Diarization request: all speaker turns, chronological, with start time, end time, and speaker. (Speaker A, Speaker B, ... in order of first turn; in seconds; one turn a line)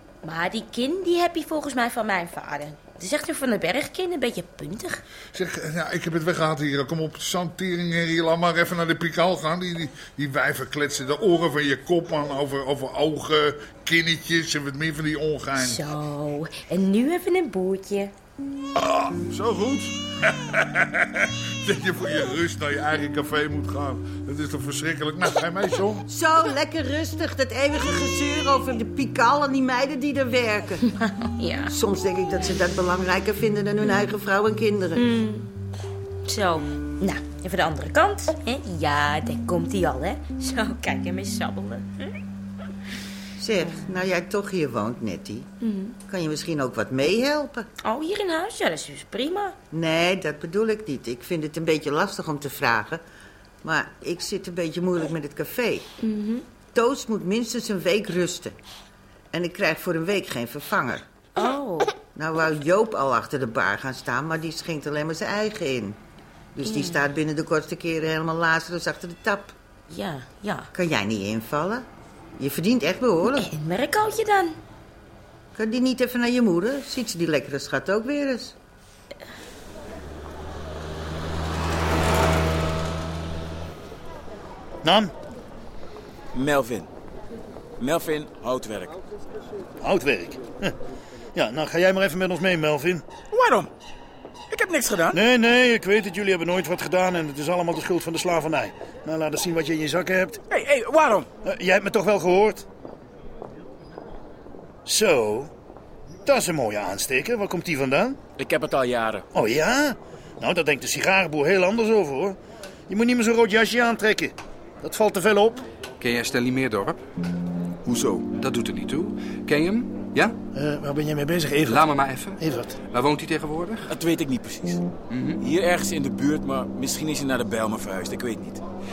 Speaker A: 0.2-5.0
Speaker B: 5.3-15.9
Speaker A: 15.6-18.1
Speaker B: 18.8-26.0
Speaker C: 26.1-30.8
Speaker A: 31.1-31.7
Speaker C: 31.7-35.0
Speaker A: 35.0-35.5
Speaker A: 36.3-42.0
Speaker C: 43.4-45.5
Speaker A: 45.6-46.0
Speaker C: 46.1-47.7
Speaker A: 47.8-49.6
Speaker C: 49.7-53.0
Speaker C: 53.6-55.9
Speaker A: 56.0-56.5
Speaker C: 56.7-58.6
Speaker C: 59.3-61.0
Speaker A: 61.4-62.0
Speaker C: 62.1-66.0
Speaker C: 66.6-69.5
Speaker A: 66.6-67.1
Speaker A: 69.9-70.7
Speaker C: 70.7-71.9
Speaker C: 72.4-73.5
Speaker A: 73.3-74.6
Speaker C: 75.5-78.5
Speaker D: 84.8-85.1
Speaker E: 86.4-86.8
Speaker E: 87.8-88.9
Speaker D: 89.8-90.7
Speaker D: 91.3-93.0
Speaker E: 93.4-93.6
Speaker E: 94.6-95.0
Speaker D: 95.2-100.4
Speaker E: 100.8-101.2
Speaker D: 101.5-102.6
Speaker D: 104.9-105.5
Speaker D: 106.3-108.2
Speaker E: 108.5-109.2
Speaker D: 109.3-112.3
Speaker D: 112.9-115.6
Speaker F: 116.0-117.0
Speaker F: 118.3-120.3
Speaker D: 120.5-121.8
Speaker F: 121.7-122.4
Speaker D: 122.4-122.7
Speaker F: 122.9-123.9
Speaker E: 124.0-124.7
Speaker F: 125.1-125.4
Speaker E: 125.6-128.6